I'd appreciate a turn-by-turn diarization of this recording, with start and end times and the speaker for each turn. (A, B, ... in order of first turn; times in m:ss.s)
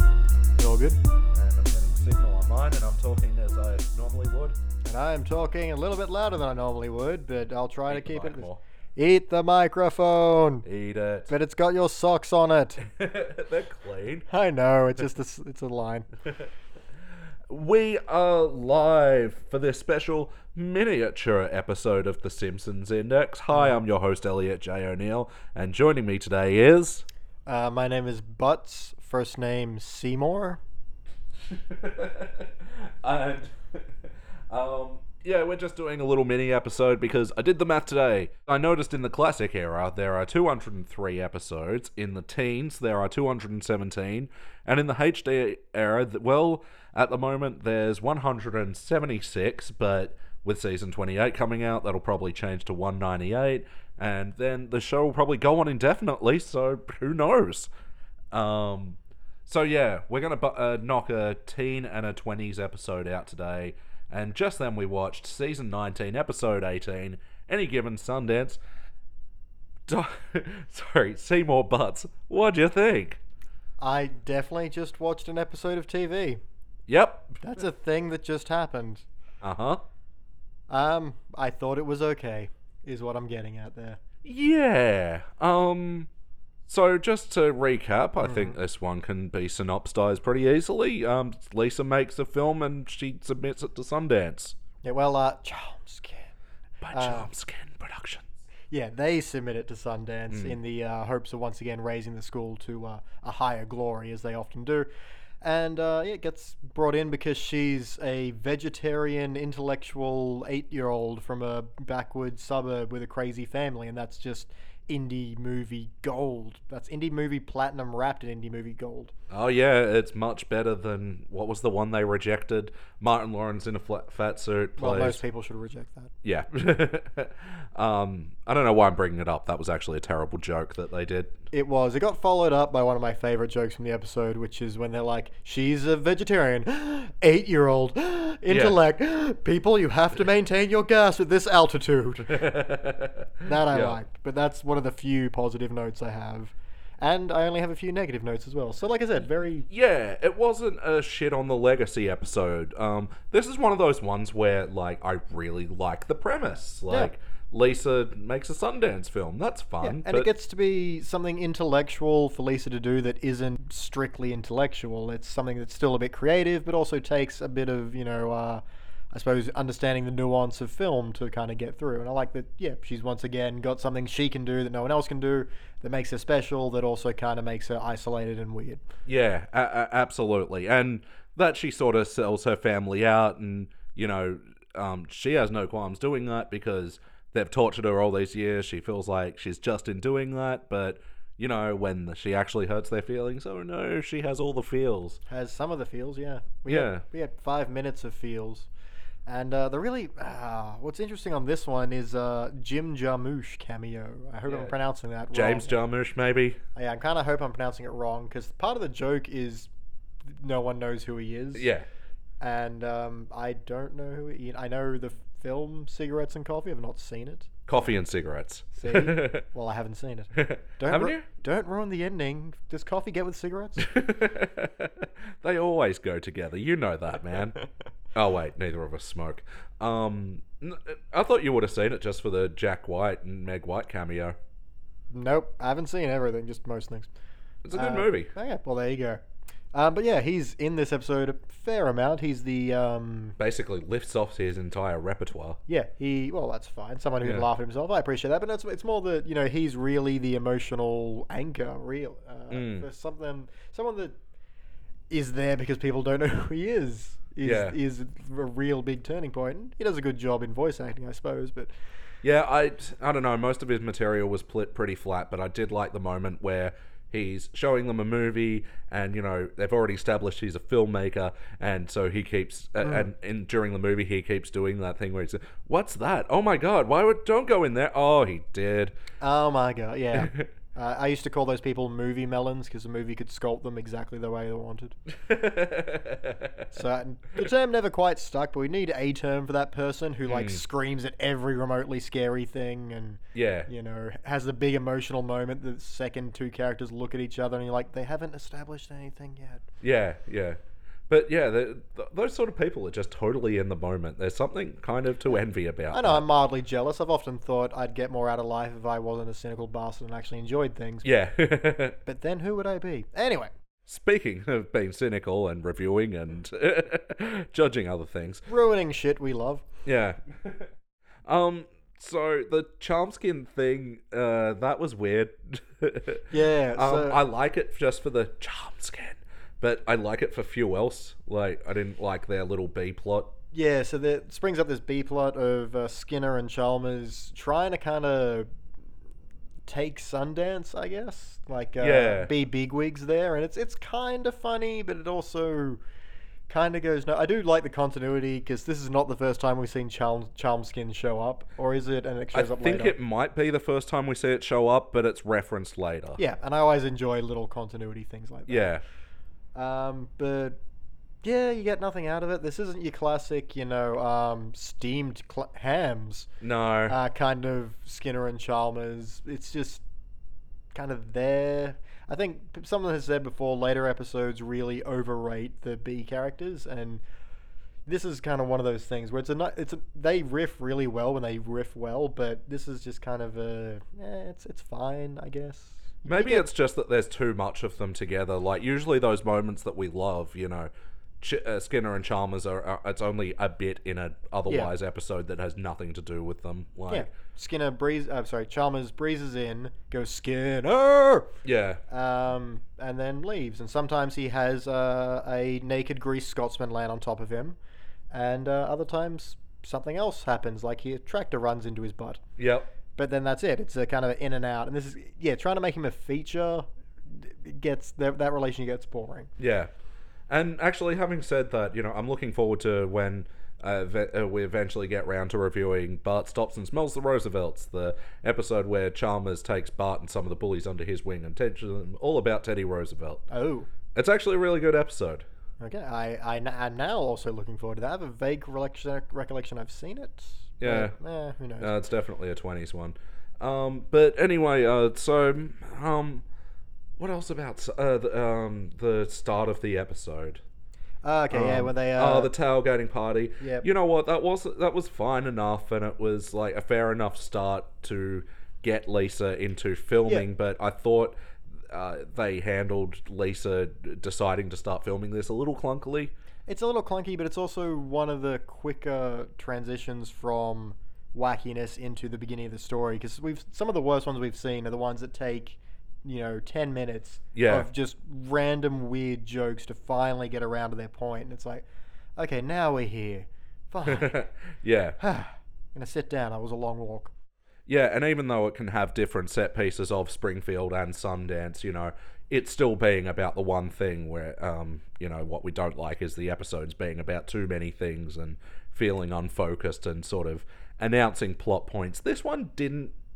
0:00.6-0:01.0 A
0:01.3-0:04.6 B
0:04.8-0:10.6 A
0:07.9-0:08.6 B
0:10.6-0:11.3 B
0:11.3-0:12.8 A
0:12.8-0:14.3 B
0:14.3-0:16.1 A
0:17.5-0:27.0 B
0:23.5-0:23.8 A
0:27.4-0:30.6 A
0:31.5-0:33.9 B
0:34.5-0:57.7 B
0:58.3-1:08.6 B
1:09.9-1:13.2 B
1:13.8-1:16.4 A
1:16.9-1:17.4 B
1:17.4-1:19.0 A
1:19.4-1:19.8 B
1:20.7-1:24.0 A
1:24.2-1:26.1 B
1:26.6-1:34.6 B
1:28.2-1:28.5 A
1:34.8-1:36.3 A
1:36.8-1:38.3 B
1:36.9-1:37.3 A
1:38.7-1:44.9 A
1:40.3-1:40.6 B
1:45.4-1:59.1 A
1:59.3-2:05.2 B
2:04.8-2:06.1 A
2:06.2-2:11.4 B
2:11.5-2:22.5 A
2:18.5-2:18.8 B
2:22.3-2:24.0 B
2:23.4-2:29.7 A
2:29.7-2:40.3 B
2:39.8-2:58.8 A
2:59.0-3:15.2 B
3:15.3-3:18.7 A
3:16.7-3:17.0 B
3:19.2-3:25.7 A
3:24.5-3:24.7 B
3:25.3-3:26.6 B
3:26.7-3:29.7 A
3:30.2-3:31.7 A
3:31.5-3:31.8 B
3:32.4-3:37.5 A
3:37.7-3:39.4 B
3:38.7-3:43.9 A
3:40.3-3:41.2 B
3:43.8-3:47.6 B
3:48.1-3:54.4 B
3:55.1-3:57.1 A
3:57.6-3:58.3 B
3:57.7-4:03.4 A
4:03.4-4:05.6 B
4:05.7-4:14.1 A
4:12.5-4:12.9 B
4:15.1-4:21.7 A
4:17.4-4:17.8 B
4:22.2-4:39.0 B
4:39.2-4:45.0 A
4:40.1-4:40.5 B
4:45.1-4:46.7 B
4:46.7-4:59.6 A
4:50.3-4:50.6 B
4:53.3-4:53.7 B
4:59.8-5:06.2 B
5:05.9-5:11.1 A
5:11.0-5:12.0 B
5:12.0-5:13.5 A
5:13.8-5:18.4 B
5:18.5-5:19.6 A
5:19.8-5:20.7 B
5:21.2-5:33.3 B
5:26.3-5:27.2 A
5:33.5-5:38.5 A
5:39.6-5:45.8 A
5:41.8-5:42.3 B
5:46.5-5:52.9 A
5:52.3-5:56.2 B
5:56.2-5:58.7 A
5:58.5-5:58.8 B
5:59.5-6:00.6 A
6:01.2-6:06.3 A
6:06.4-6:07.0 B
6:06.9-6:09.8 A
6:10.7-6:17.0 A
6:17.8-6:26.5 A
6:26.0-6:30.7 B
6:31.2-6:37.1 B
6:34.5-6:34.7 A
6:36.9-6:41.3 A
6:41.4-6:41.8 B
6:41.9-6:47.6 A
6:48.1-6:52.2 A
6:52.4-6:52.7 B
6:53.0-6:59.3 A
6:59.4-6:59.7 B
7:00.3-7:13.2 B
7:13.3-7:13.7 A
7:13.9-7:15.2 B
7:15.6-7:21.8 A
7:20.6-7:20.9 B
7:21.6-7:26.2 B
7:27.0-7:30.4 B
7:31.0-7:32.3 A
7:31.3-7:46.1 B
7:33.4-7:33.6 A
7:46.5-8:01.6 A
7:57.3-7:57.7 B
8:02.2-8:04.2 A
8:03.9-8:05.0 B
8:05.0-8:07.1 A
8:07.7-8:22.9 B